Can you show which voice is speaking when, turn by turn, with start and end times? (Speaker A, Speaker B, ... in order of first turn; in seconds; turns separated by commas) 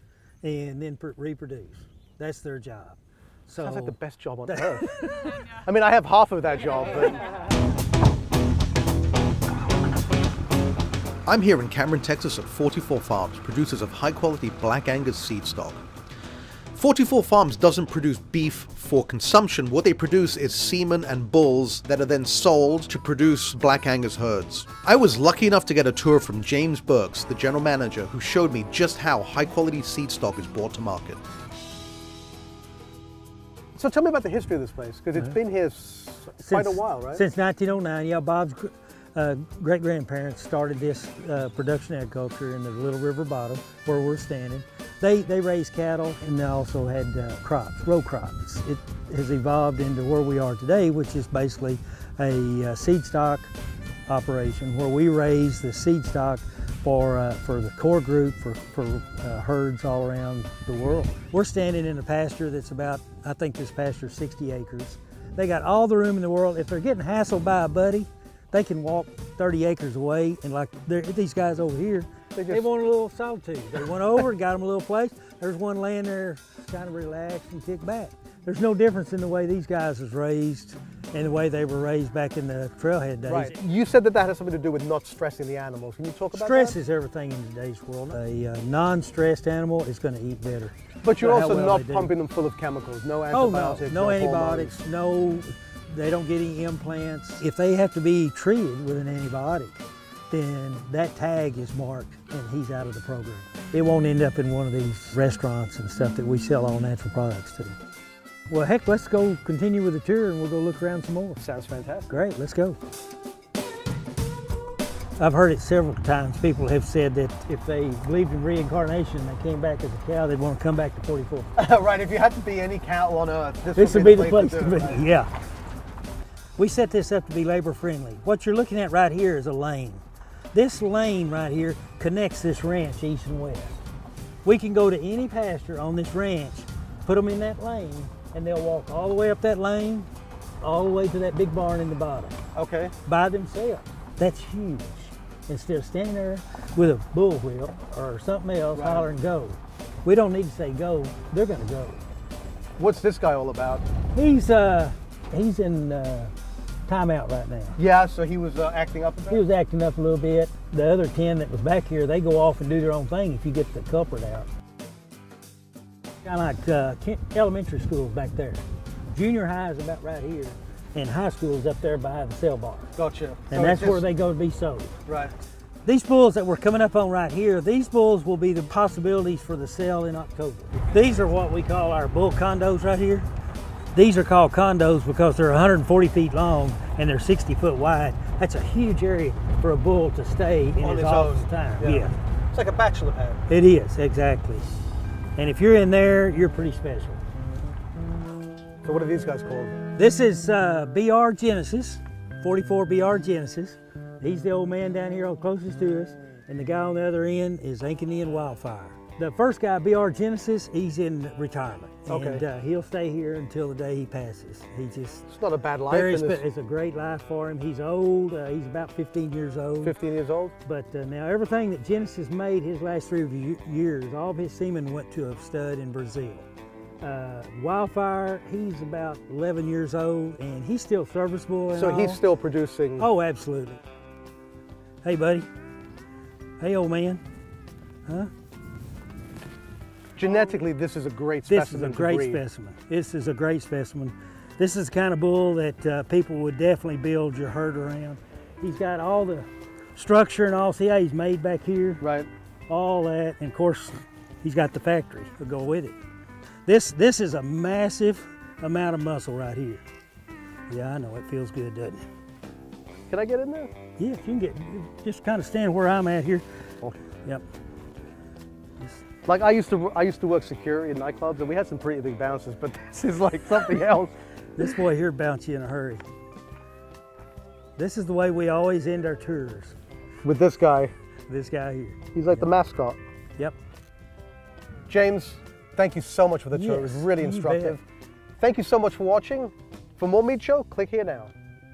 Speaker A: 0.4-4.0, Speaker B: 3.6-4.8, Speaker A: 4.5-5.4, Speaker B: 5.7-7.2, Speaker C: 11.2-15.8, Speaker C: 16.7-31.2, Speaker B: 33.8-37.2, Speaker A: 36.4-53.5, Speaker A: 54.1-83.5, Speaker B: 72.3-72.7, Speaker B: 83.2-86.8, Speaker A: 86.3-92.1, Speaker B: 91.0-94.8, Speaker A: 93.3-107.8, Speaker A: 108.5-111.4, Speaker B: 111.4-112.1, Speaker A: 112.1-112.8, Speaker A: 115.2-121.5, Speaker B: 121.6-125.1, Speaker A: 123.8-125.3, Speaker A: 126.6-133.8, Speaker A: 134.4-140.1, Speaker A: 140.6-142.4, Speaker B: 142.5-142.9, Speaker A: 143.0-152.0, Speaker B: 148.8-149.1, Speaker B: 152.8-153.8, Speaker A: 154.1-156.3, Speaker A: 156.9-157.8, Speaker B: 157.8-159.4, Speaker A: 159.3-164.5, Speaker A: 166.2-172.9, Speaker B: 172.9-174.1, Speaker A: 173.5-174.9, Speaker B: 175.1-175.3, Speaker A: 175.8-183.2, Speaker A: 183.9-192.1, Speaker B: 190.8-193.4, Speaker A: 193.5-194.7, Speaker A: 195.3-197.2, Speaker B: 198.8-199.8, Speaker A: 199.9-215.3, Speaker B: 212.1-212.4, Speaker B: 215.3-216.4, Speaker A: 215.9-219.9, Speaker B: 219.8-220.5, Speaker A: 220.6-226.4, Speaker A: 227.0-232.2, Speaker B: 231.7-233.1, Speaker A: 233.0-233.8, Speaker A: 235.0-235.5, Speaker A: 236.6-237.2, Speaker B: 240.2-242.4, Speaker A: 241.5-252.0, Speaker B: 252.0-252.3, Speaker A: 252.7-255.9, Speaker A: 256.6-259.8, Speaker A: 260.7-262.1, Speaker B: 263.1-263.7, Speaker A: 264.0-266.4, Speaker A: 268.8-269.1, Speaker B: 269.2-274.1, Speaker A: 274.6-276.0, Speaker A: 277.8-279.8, Speaker B: 280.2-280.9, Speaker A: 281.3-282.5, Speaker B: 282.1-283.0, Speaker B: 284.9-287.8, Speaker A: 286.5-287.8, Speaker B: 288.4-291.3